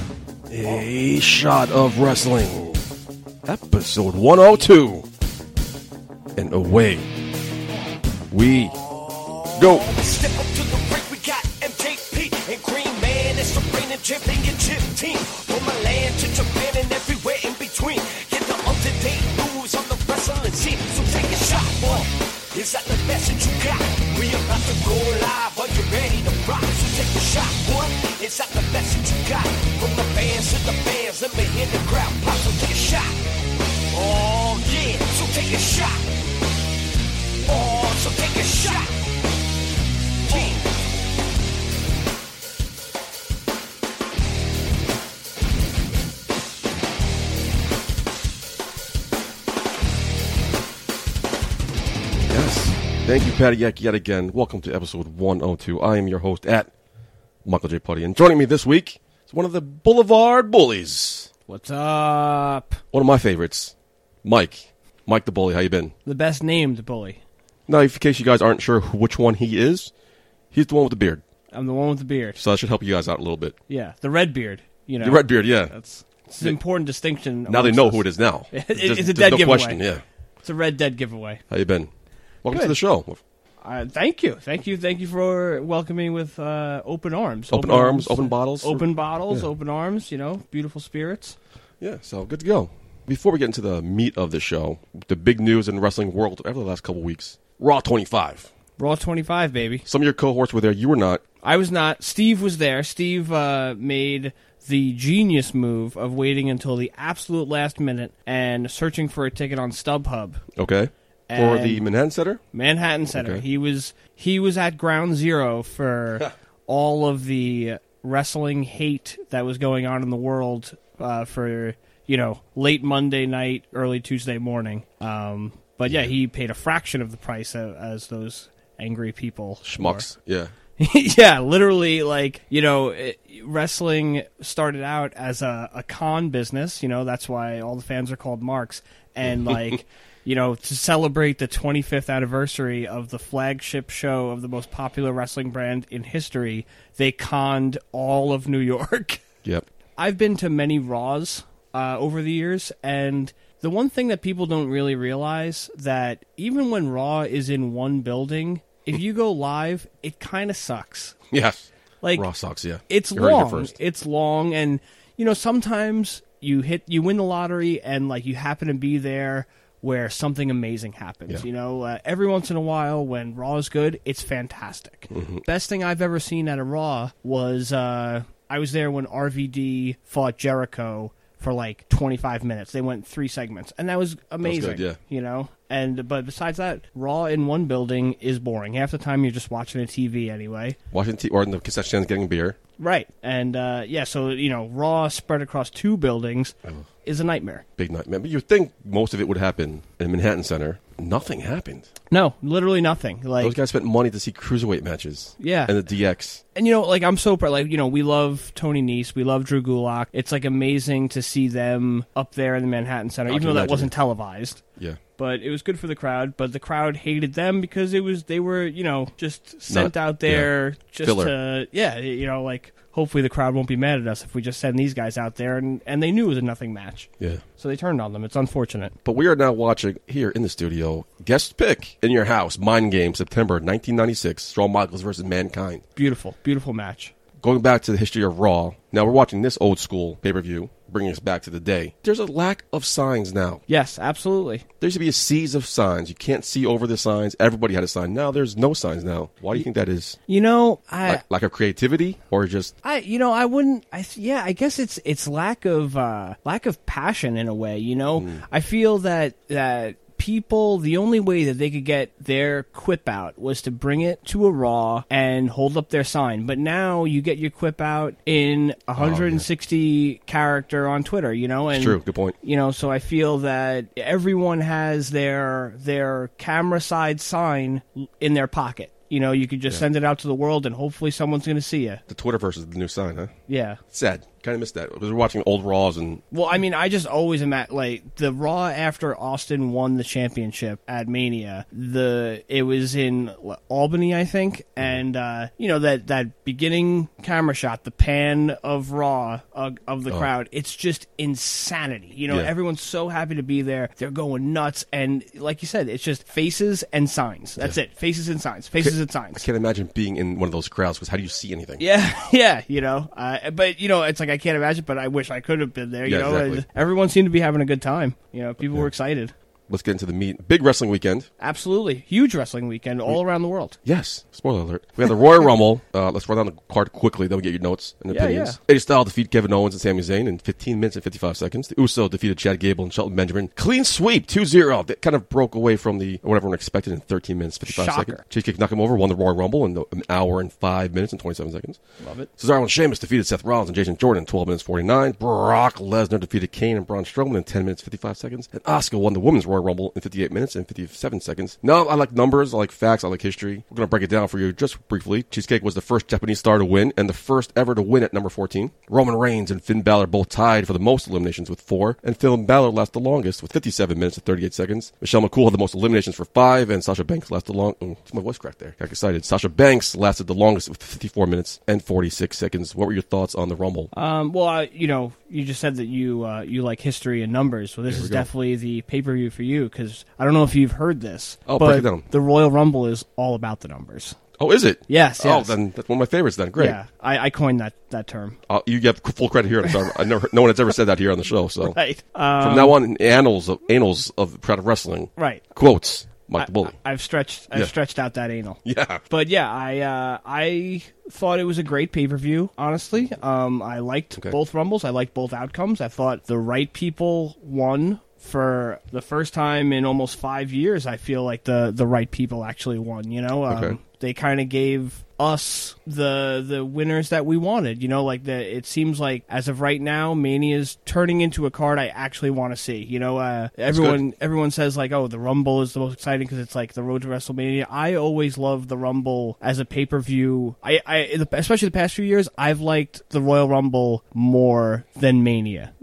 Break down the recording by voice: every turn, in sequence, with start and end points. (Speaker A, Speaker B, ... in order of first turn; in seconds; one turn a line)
Speaker A: 0.5-2.8
Speaker A: 3.4-5.0
Speaker A: 6.3-7.1
Speaker A: 8.3-8.8
Speaker B: 9.4-33.2
Speaker A: 9.5-9.9
Speaker B: 33.9-36.1
Speaker B: 37.4-38.9
Speaker B: 40.2-40.8
Speaker A: 52.3-56.7
Speaker A: 57.4-61.3
Speaker C: 61.5-62.8
Speaker A: 62.9-65.9
Speaker C: 66.0-67.2
Speaker A: 67.7-69.9
Speaker A: 70.5-71.2
Speaker C: 71.5-72.4
Speaker A: 72.4-73.5
Speaker C: 73.7-79.8
Speaker A: 75.0-75.7
Speaker A: 77.5-80.0
Speaker C: 80.4-81.4
Speaker A: 81.5-81.9
Speaker A: 82.4-83.2
Speaker C: 82.5-82.7
Speaker C: 83.6-91.3
Speaker A: 87.5-89.5
Speaker A: 91.8-98.5
Speaker C: 98.8-99.8
Speaker A: 99.8-101.2
Speaker C: 101.4-110.4
Speaker A: 110.5-112.4
Speaker C: 111.3-111.8
Speaker C: 112.5-130.1
Speaker A: 113.1-113.4
Speaker A: 129.6-130.5
Speaker C: 130.8-149.2
Speaker C: 150.0-161.2
Speaker A: 161.3-163.7
Speaker C: 162.0-162.3
Speaker C: 162.9-190.8
Speaker A: 175.1-175.4
Speaker A: 184.4-185.0
Speaker A: 190.9-192.6
Speaker C: 192.8-197.6
Speaker A: 197.8-201.9
Speaker C: 202.1-203.5
Speaker A: 203.4-206.4
Speaker C: 205.4-205.7
Speaker C: 206.5-214.6
Speaker A: 213.3-213.9
Speaker C: 215.2-228.9
Speaker A: 219.7-220.5
Speaker A: 221.0-221.3
Speaker A: 229.0-235.8
Speaker C: 235.9-237.1
Speaker A: 237.4-243.6
Speaker C: 243.7-244.6
Speaker A: 244.8-250.2
Speaker C: 250.3-251.2
Speaker A: 251.0-252.7
Speaker C: 252.8-282.0
Speaker A: 258.2-258.4
Speaker A: 268.9-269.4
Speaker A: 271.7-272.3
Speaker A: 282.1-283.3
Speaker C: 283.5-283.8
Speaker A: 283.9-286.2
Speaker C: 286.3-309.4
Speaker A: 302.3-302.5
Speaker A: 308.8-311.8
Speaker C: 311.8-319.3
Speaker A: 316.0-316.6
Speaker A: 319.7-321.3
Speaker C: 321.4-323.8
Speaker A: 323.8-341.8
Speaker C: 328.1-328.6
Speaker C: 337.6-338.2
Speaker C: 342.0-342.3
Speaker A: 342.4-373.9
Speaker C: 373.9-384.2
Speaker A: 377.9-378.3
Speaker A: 381.5-382.0
Speaker A: 384.4-386.8
Speaker C: 384.9-385.6
Speaker C: 386.6-388.4
Speaker A: 388.5-391.8
Speaker C: 391.7-392.8
Speaker A: 392.4-396.7
Speaker C: 395.2-395.4
Speaker C: 396.4-435.7
Speaker A: 398.6-399.0
Speaker A: 413.5-413.8
Speaker A: 423.7-424.0